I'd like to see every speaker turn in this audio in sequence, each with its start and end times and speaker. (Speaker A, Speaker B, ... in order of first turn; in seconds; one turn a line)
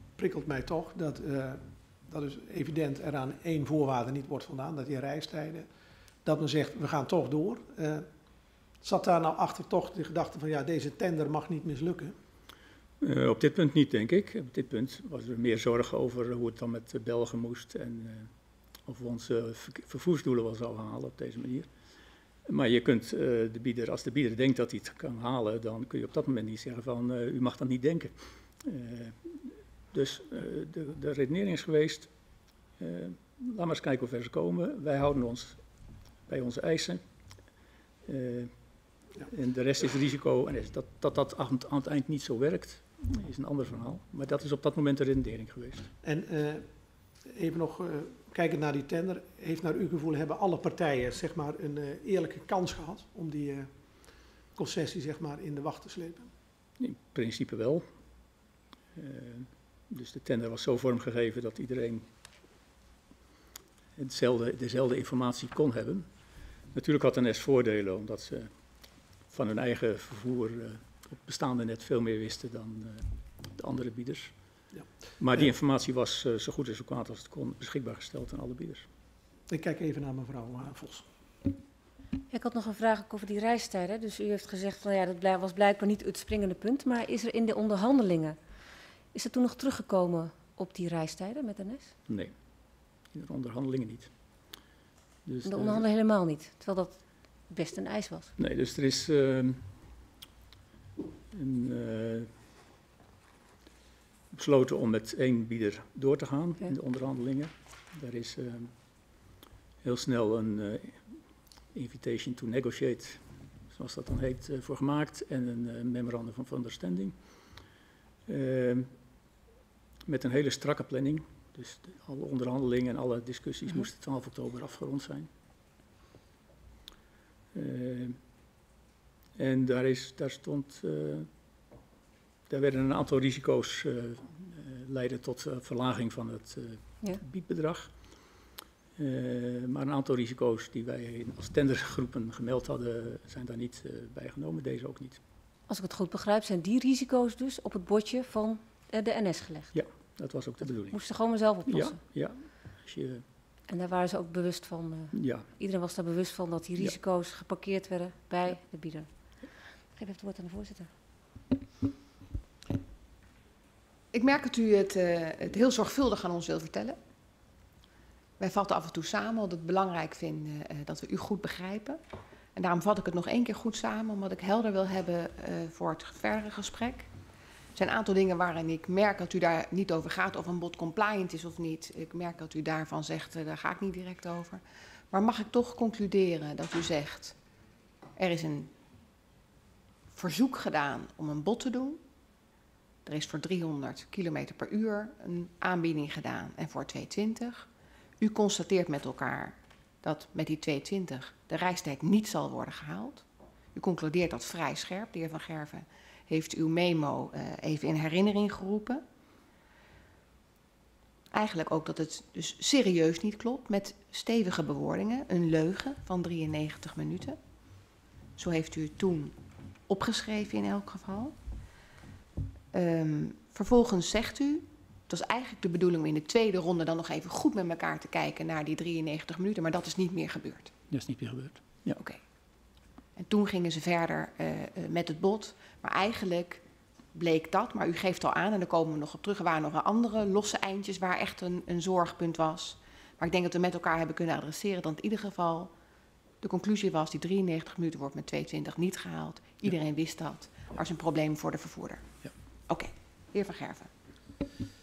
Speaker A: 0.2-5.7
Speaker A: 6.2-8.0
Speaker A: 8.8-12.1
Speaker B: 13.0-18.3
Speaker B: 18.9-21.7
Speaker B: 22.4-32.1
Speaker B: 32.8-35.6
Speaker B: 36.3-37.0
Speaker B: 38.0-38.5
Speaker B: 39.2-45.9
Speaker A: 46.0-46.6
Speaker A: 47.3-53.7
Speaker A: 54.5-56.3
Speaker B: 56.8-57.9
Speaker B: 58.9-62.0
Speaker B: 64.0-66.1
Speaker B: 66.7-68.5
Speaker B: 69.3-74.3
Speaker B: 75.2-78.8
Speaker A: 79.5-81.0
Speaker C: 82.3-88.3
Speaker C: 89.1-91.9
Speaker B: 92.1-92.3
Speaker B: 93.1-94.1
Speaker B: 95.2-95.8
Speaker C: 95.4-98.3
Speaker B: 98.4-99.6
Speaker B: 101.3-102.3
Speaker B: 104.3-108.7
Speaker B: 109.8-111.2
Speaker B: 111.7-117.1
Speaker B: 118.3-118.9
Speaker B: 120.0-125.3
Speaker B: 127.5-128.2
Speaker B: 129.3-131.3
Speaker B: 132.5-137.9
Speaker B: 138.9-145.2
Speaker C: 145.7-149.8
Speaker B: 149.7-151.0
Speaker C: 150.9-152.0
Speaker B: 151.7-153.2
Speaker C: 153.7-159.1
Speaker B: 155.1-155.4
Speaker C: 159.9-160.9
Speaker D: 164.1-167.0
Speaker D: 168.4-172.0
Speaker D: 172.5-177.1
Speaker D: 177.7-187.3
Speaker D: 188.2-188.7
Speaker D: 190.1-192.0
Speaker D: 193.0-197.7
Speaker D: 198.2-209.0
Speaker D: 211.3-217.4
Speaker D: 218.3-219.3
Speaker D: 219.9-221.3
Speaker D: 222.7-230.7
Speaker B: 230.9-232.0
Speaker D: 233.2-236.6
Speaker D: 237.1-245.7
Speaker D: 246.4-252.0
Speaker D: 252.7-253.9